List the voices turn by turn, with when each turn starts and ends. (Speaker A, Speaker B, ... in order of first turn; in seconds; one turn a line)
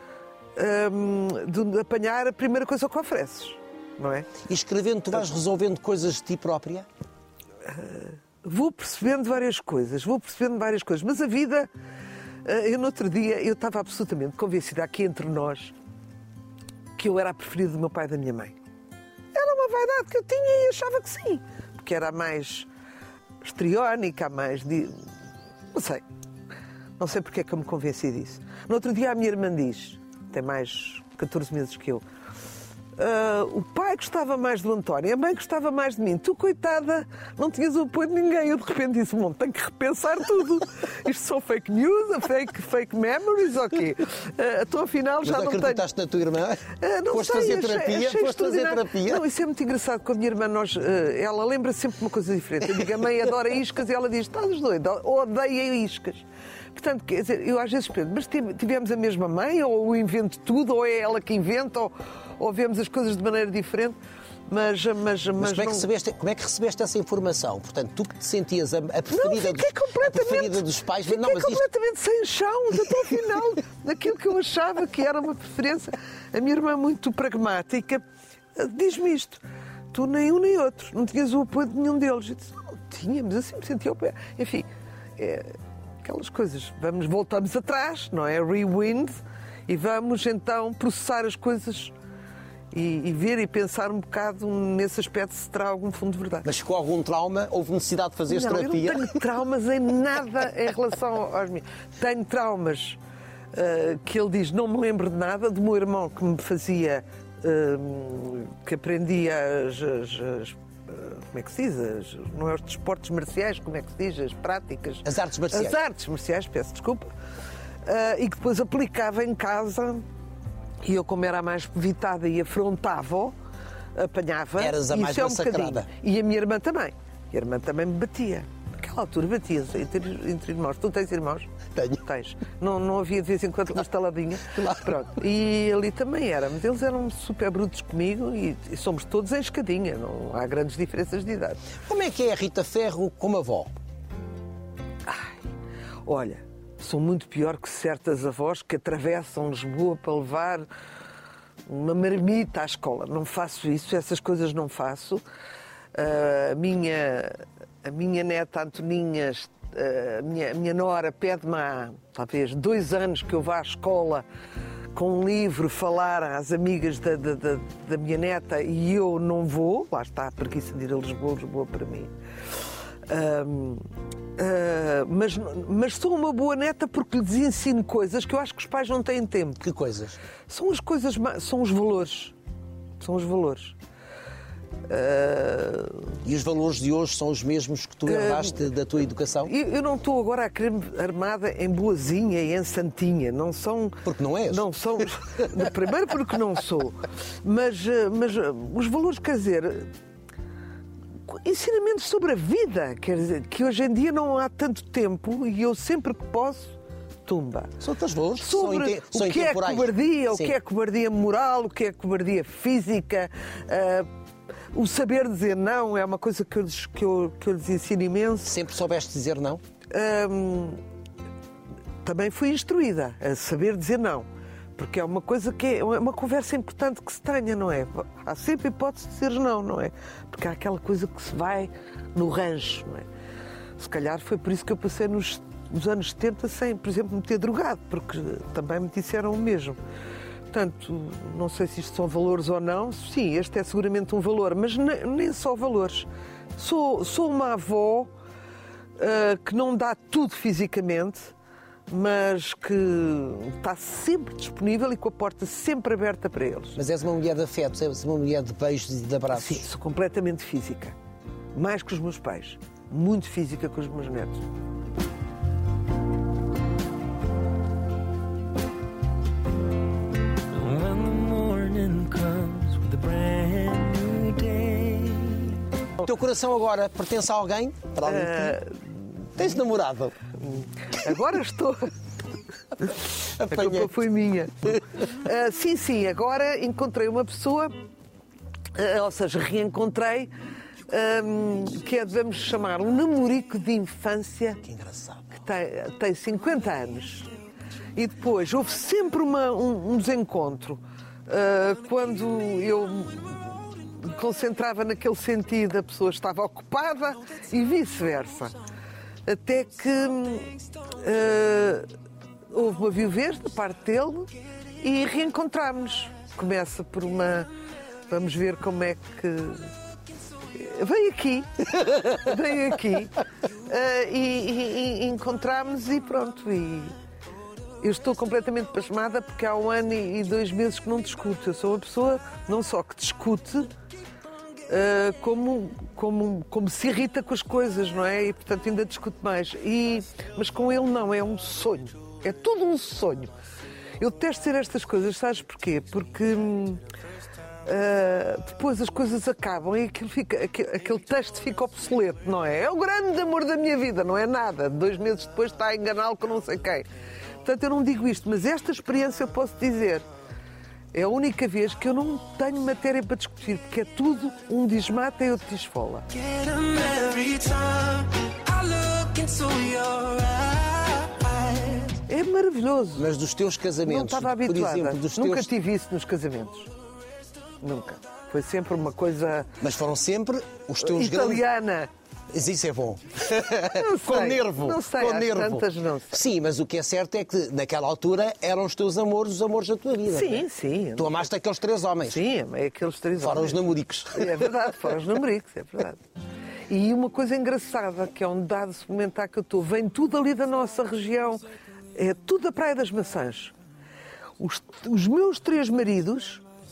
Speaker A: 0.6-4.3
Speaker B: 4.4-6.9
Speaker A: 7.6-11.7
Speaker A: 12.4-15.7
Speaker A: 16.9-18.6
Speaker A: 19.3-22.7
Speaker A: 23.4-25.0
Speaker A: 25.7-26.0
Speaker A: 27.0-32.0
Speaker A: 33.0-45.8
Speaker B: 45.2-49.2
Speaker A: 46.8-64.0
Speaker A: 64.5-65.9
Speaker B: 65.4-71.6
Speaker A: 69.1-89.1
Speaker A: 89.7-91.9
Speaker A: 92.7-96.5
Speaker B: 96.4-99.2
Speaker A: 98.3-103.0
Speaker A: 103.5-117.1
Speaker B: 115.0-115.8
Speaker A: 117.8-120.0
Speaker A: 120.8-123.3
Speaker A: 123.9-141.6
Speaker B: 124.6-125.9
Speaker B: 131.7-132.0
Speaker B: 141.8-143.7
Speaker A: 145.0-145.4
Speaker A: 146.1-150.7
Speaker A: 151.7-155.2
Speaker A: 155.9-164.2
Speaker A: 164.9-172.1
Speaker A: 173.1-173.8
Speaker A: 174.3-179.6
Speaker B: 179.6-180.2
Speaker A: 180.5-182.3
Speaker A: 183.0-183.8
Speaker A: 184.8-186.2
Speaker B: 186.2-189.5
Speaker A: 188.1-188.6
Speaker A: 189.4-199.9
Speaker B: 194.0-194.7
Speaker A: 201.2-207.8
Speaker B: 207.8-210.5
Speaker A: 208.4-214.1
Speaker A: 214.7-218.6
Speaker B: 218.4-219.6
Speaker A: 219.9-220.8
Speaker A: 222.0-233.1
Speaker A: 233.8-239.8
Speaker A: 240.5-248.1
Speaker A: 249.0-251.3
Speaker A: 251.9-256.8
Speaker B: 256.8-259.6
Speaker A: 259.3-260.9
Speaker A: 261.5-264.5
Speaker C: 270.5-275.5
Speaker B: 276.0-278.6
Speaker A: 278.0-278.9
Speaker B: 279.4-280.1
Speaker A: 280.4-281.9
Speaker A: 282.8-287.7
Speaker B: 283.2-283.9
Speaker A: 288.7-290.3
Speaker A: 290.9-294.6
Speaker B: 294.6-295.3
Speaker A: 295.3-297.3
Speaker A: 297.9-308.6
Speaker A: 309.2-311.9
Speaker A: 312.5-317.5
Speaker A: 318.1-319.7
Speaker A: 320.5-326.9
Speaker A: 327.8-333.8
Speaker A: 334.7-343.3
Speaker A: 344.0-346.8
Speaker A: 347.6-356.9
Speaker A: 357.4-360.0
Speaker A: 360.9-366.1
Speaker C: 366.1-372.0
Speaker A: 372.1-373.1
Speaker B: 373.0-375.5
Speaker A: 373.8-376.7
Speaker A: 377.6-379.6
Speaker B: 379.6-381.4
Speaker A: 380.8-381.9
Speaker B: 382.3-390.4
Speaker A: 383.6-386.2
Speaker A: 390.1-391.3
Speaker B: 391.0-392.2
Speaker A: 392.0-396.0
Speaker B: 393.2-394.4
Speaker A: 396.7-403.5
Speaker A: 404.4-406.4